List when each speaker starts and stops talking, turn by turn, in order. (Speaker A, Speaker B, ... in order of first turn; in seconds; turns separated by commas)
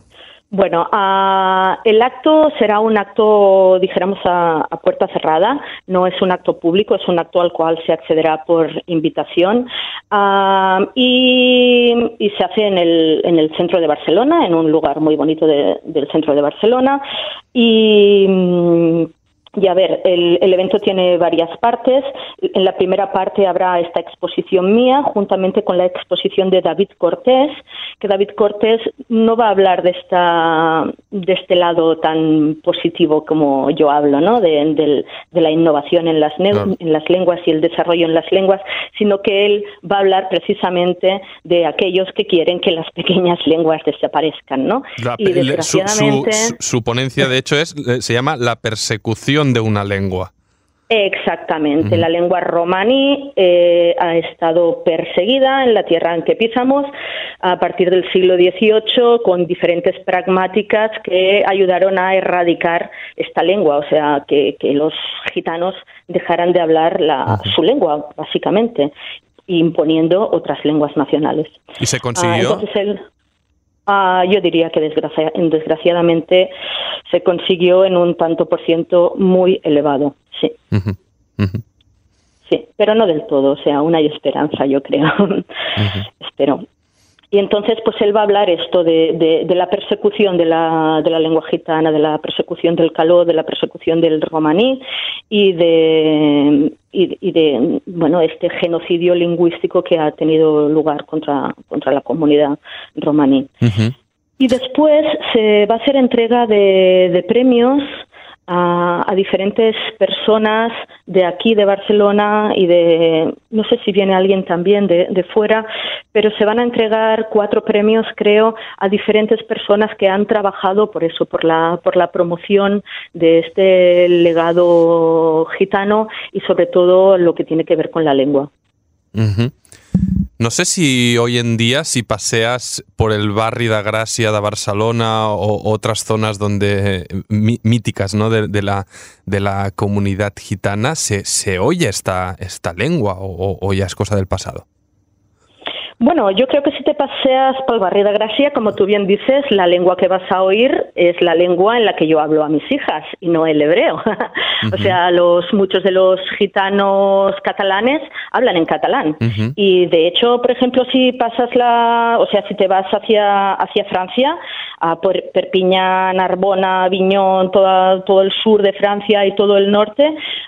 Speaker A: 0.5-17.0, Speaker A: 17.5-46.6, Speaker B: 45.0-50.3, Speaker A: 50.9-56.9, Speaker A: 57.4-68.9, Speaker A: 69.5-71.6, Speaker B: 71.8-72.7, Speaker A: 72.2-73.0, Speaker A: 73.9-76.5, Speaker A: 77.1-80.6, Speaker B: 80.7-81.6, Speaker A: 82.5-85.5, Speaker A: 86.2-86.6, Speaker A: 87.3-103.5, Speaker B: 103.6-103.9, Speaker A: 104.4-128.5, Speaker B: 129.1-129.5, Speaker B: 130.4-144.7, Speaker A: 146.0-170.2, Speaker B: 154.7-154.9, Speaker B: 159.2-159.5